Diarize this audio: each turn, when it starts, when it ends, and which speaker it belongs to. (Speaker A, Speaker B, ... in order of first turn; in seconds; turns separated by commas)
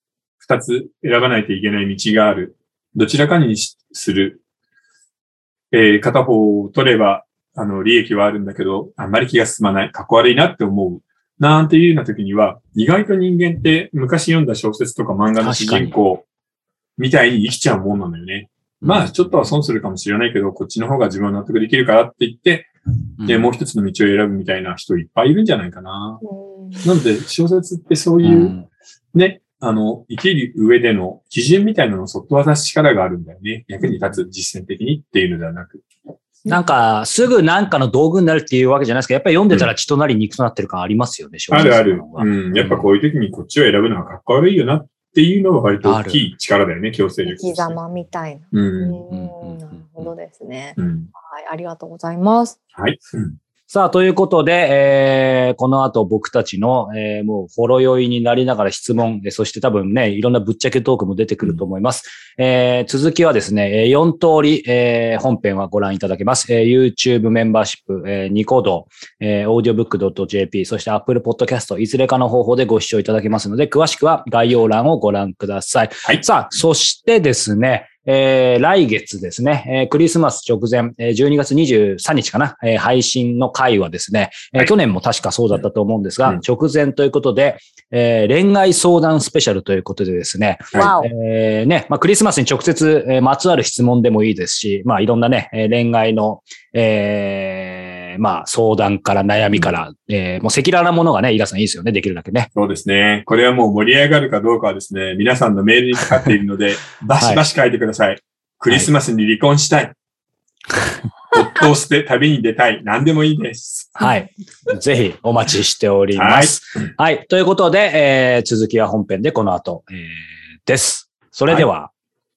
Speaker A: 0.4-4.4, Speaker A: 5.7-16.2, Speaker B: 15.4-15.9, Speaker A: 17.0-22.7, Speaker B: 18.8-19.3, Speaker B: 23.2-23.5, Speaker A: 23.2-26.2, Speaker C: 26.2-26.9, Speaker A: 26.8-28.6, Speaker B: 28.2-28.7, Speaker A: 29.1-35.8, Speaker B: 36.5-42.9, Speaker A: 41.5-47.8, Speaker C: 41.5-41.8, Speaker B: 45.8-46.3, Speaker C: 47.3-52.6, Speaker A: 48.5-49.0, Speaker B: 49.1-50.1, Speaker A: 50.8-51.1, Speaker A: 52.8-53.4, Speaker B: 53.7-102.5, Speaker C: 90.7-91.1, Speaker A: 102.5-109.9, Speaker B: 108.7-108.9, Speaker A: 111.3-114.0, Speaker B: 114.0-121.9, Speaker A: 116.1-116.8